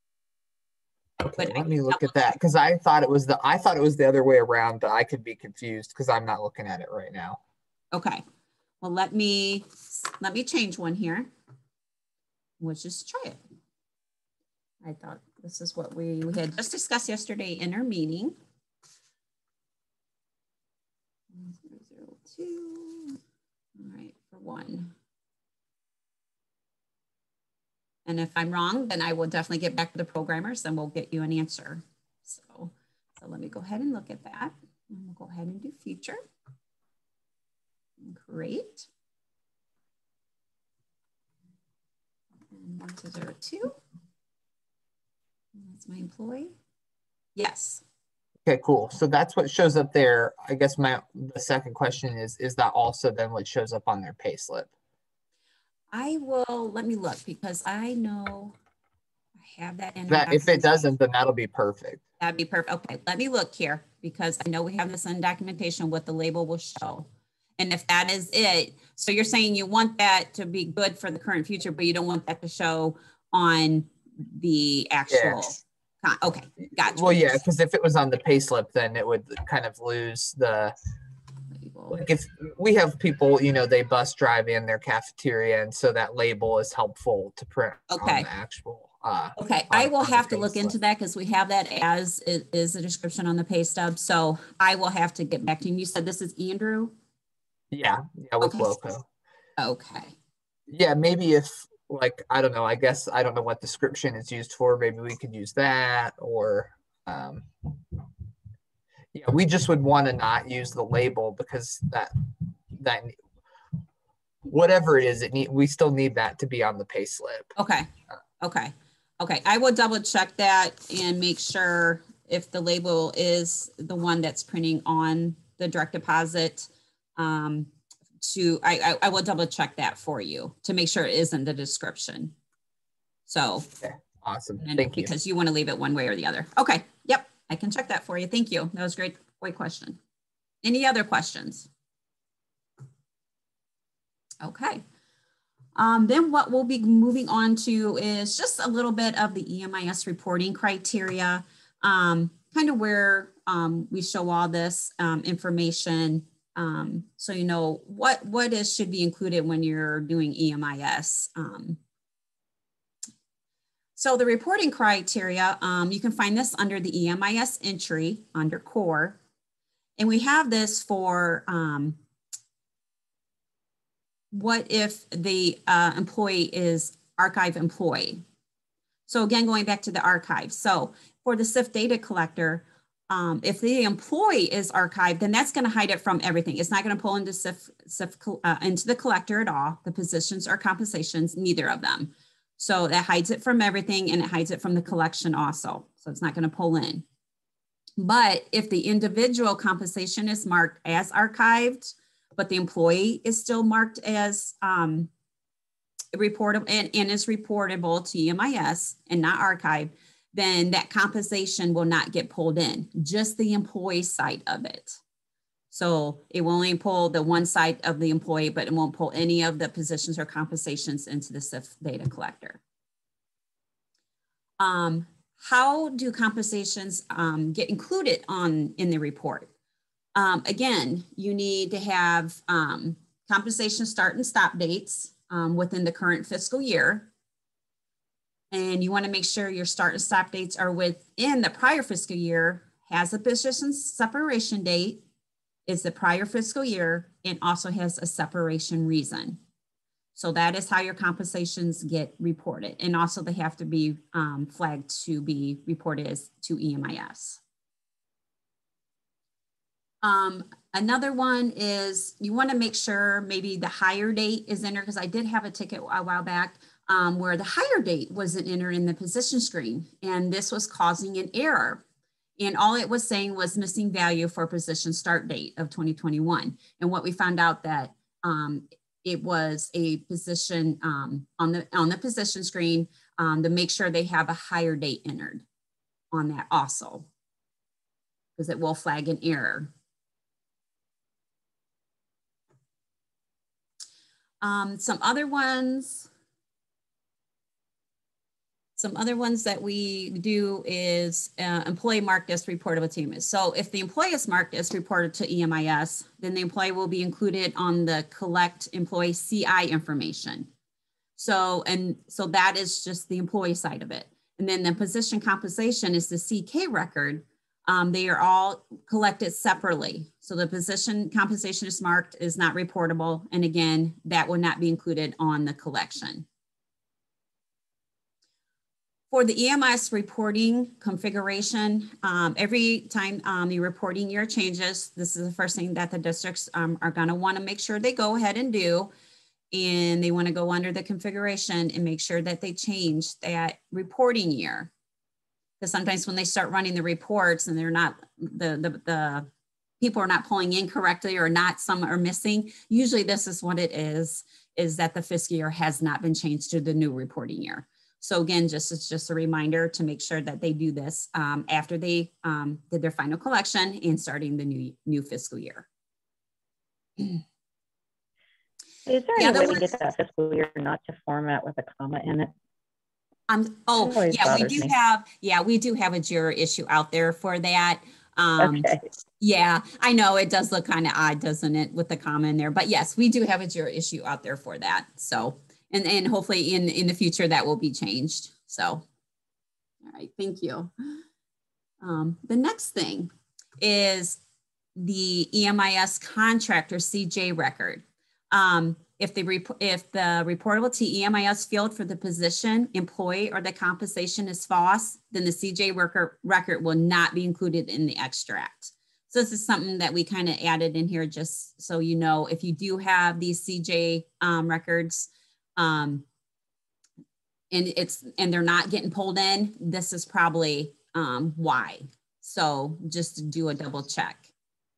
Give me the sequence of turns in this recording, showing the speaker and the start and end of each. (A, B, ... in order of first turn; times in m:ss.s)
0:01.2-0:07.4 A
0:01.4-0:02.1 B
0:07.9-0:08.2 B
0:08.8-0:11.3 B
0:12.6-0:13.4 B
0:14.8-0:18.4 B
0:21.3-0:23.2 B
0:23.8-0:24.9 B
0:28.1-0:36.2 B
0:38.0-0:38.9 B
0:42.5-0:43.8 B
0:45.6-0:46.5 B
0:47.4-0:47.8 B
0:48.5-0:54.7 A
0:55.9-0:58.6 B
0:59.4-1:00.9 B
1:00.1-1:02.0 A
1:02.2-1:07.1 B
1:07.6-1:17.4 B
1:15.1-1:15.5 A
1:16.7-1:20.8 A
1:21.5-1:22.1 B
1:21.9-1:30.7 A
1:27.9-1:28.3 B
1:29.4-1:36.9 B
1:37.7-1:39.1 A
1:38.4-1:38.7 B
1:39.6-1:40.2 B
1:40.7-1:47.7 A
1:49.1-1:52.1 A
1:52.7-1:53.2 A
1:54.4-1:57.5 A
1:57.6-1:57.9 B
1:58.4-2:07.7 B
2:08.2-2:12.4 B
2:13.3-2:13.7 B
2:13.8-2:15.1 A
2:14.6-2:20.0 B
2:20.6-2:21.7 B
2:24.4-2:24.8 B
2:25.8-2:41.8 B
2:44.0-2:49.2 B
2:50.0-2:52.0 B
2:54.3-2:58.2 B
2:59.1-3:17.0 B
3:18.0-3:25.1 B
3:26.1-3:35.0 B
3:35.7-3:42.6 B
3:44.6-3:49.5 B
3:50.2-3:57.1 B
3:58.5-4:05.0 B
4:05.7-4:09.4 B
4:10.2-4:17.4 B
4:20.0-4:31.8 B
4:32.4-4:45.4 B
4:46.1-4:47.1 B
4:48.4-4:49.7 B
4:54.4-4:56.1 B
4:58.8-5:10.5 B
5:11.2-5:26.3 B
5:29.1-5:38.9 B
5:39.5-5:44.7 B
5:45.6-5:49.3 B
5:49.8-6:05.7 B
6:08.9-6:12.3 C
6:09.2-6:09.6 B
6:13.3-6:28.8 B
6:13.8-6:14.7 C
6:18.4-6:18.8 C
6:29.8-6:30.7 B
6:31.8-6:34.2 B
6:34.8-6:56.1 B
6:57.5-7:04.3 B